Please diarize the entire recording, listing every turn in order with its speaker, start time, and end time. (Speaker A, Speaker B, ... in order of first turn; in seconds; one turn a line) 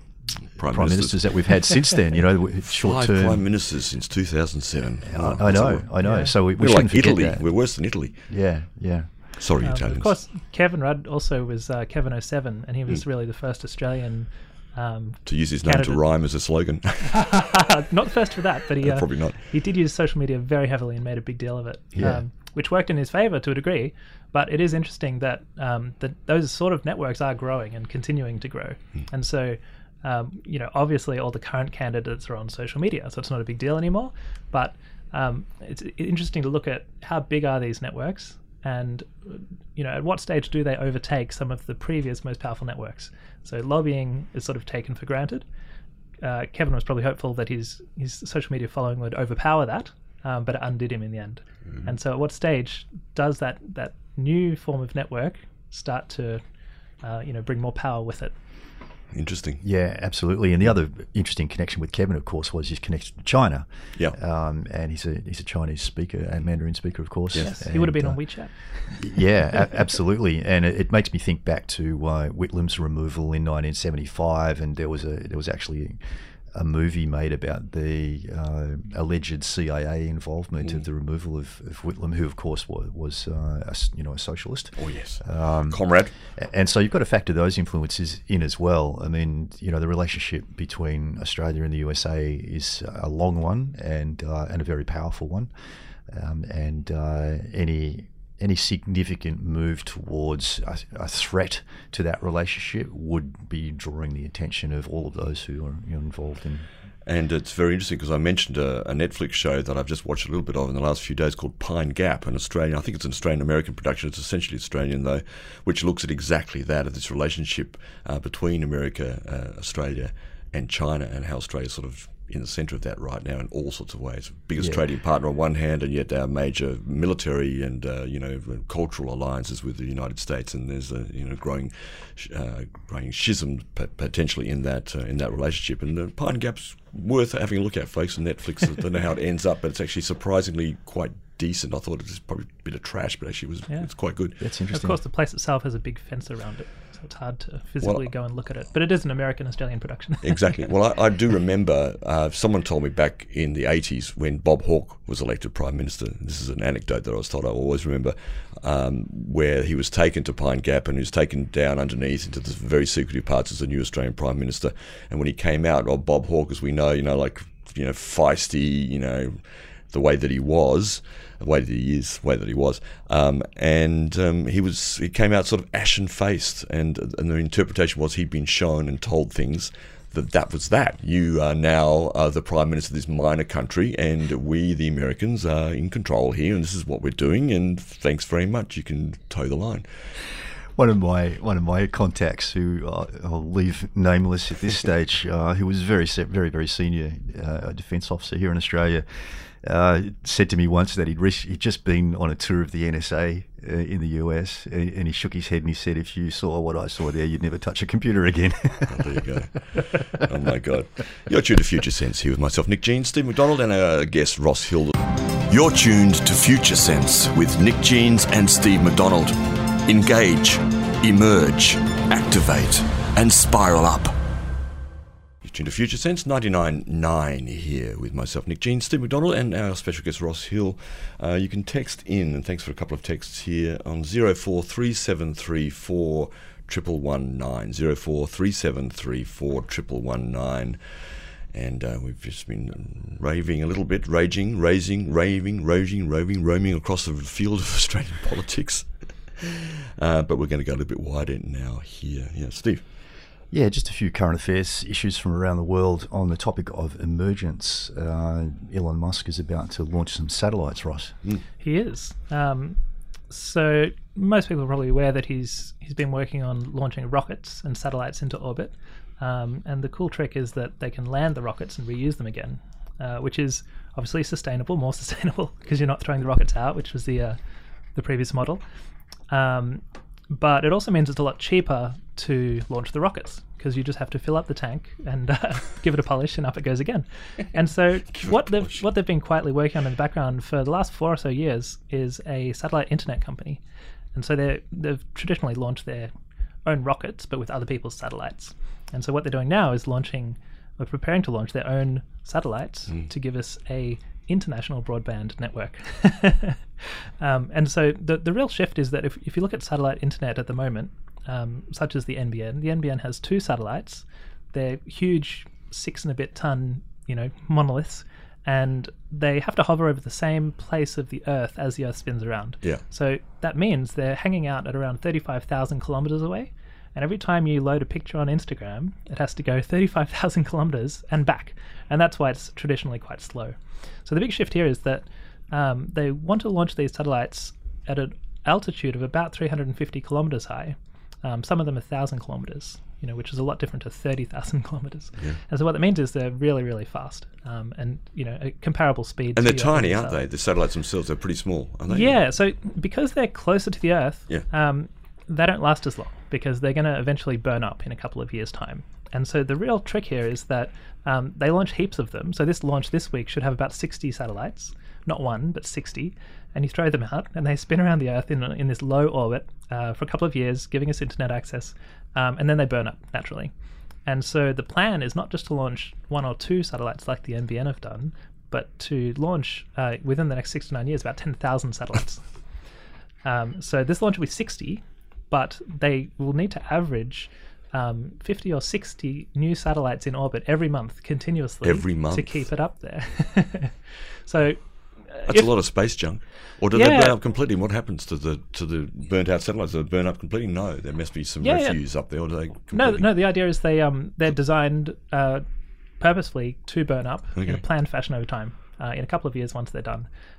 Speaker A: 0.5-1.8
Speaker B: 0.6-3.5
Speaker A: 2.7-8.3
Speaker B: 5.0-7.5
Speaker C: 6.0-6.3
Speaker B: 8.3-9.1
Speaker A: 9.4-10.2
Speaker C: 9.6-16.0
Speaker A: 15.2-17.4
Speaker C: 17.1-45.4
Speaker A: 18.8-19.4
Speaker B: 22.0-22.2
Speaker C: 46.2-56.4
Speaker C: 57.0-58.3
Speaker A: 59.1-59.6
Speaker B: 59.6-68.2
Speaker A: 67.3-67.6
Speaker C: 67.4-69.7
Speaker B: 68.9-76.0
Speaker B: 76.5-95.5
Speaker A: 84.8-86.1
Speaker B: 96.1-106.7
Speaker A: 107.0-144.4
Speaker B: 144.4-145.0
Speaker C: 144.7-150.7
Speaker A: 147.8-148.1
Speaker A: 150.2-190.1
Speaker B: 190.8-209.8
Speaker A: 208.9-224.2
Speaker A: 225.4-252.9
Speaker B: 253.5-261.2
Speaker C: 261.6-262.8
Speaker C: 263.3-277.4
Speaker C: 277.9-278.6
Speaker C: 279.3-293.6
Speaker A: 288.1-288.8
Speaker C: 294.1-296.1
Speaker C: 296.6-350.2
Speaker A: 349.4-352.2
Speaker C: 351.9-373.5
Speaker C: 374.1-382.4
Speaker C: 383.2-395.5
Speaker A: 391.6-392.5
Speaker A: 395.3-403.1
Speaker C: 396.7-397.2
Speaker C: 401.4-401.8
Speaker C: 402.7-405.4
Speaker C: 406.0-410.1
Speaker A: 407.4-407.6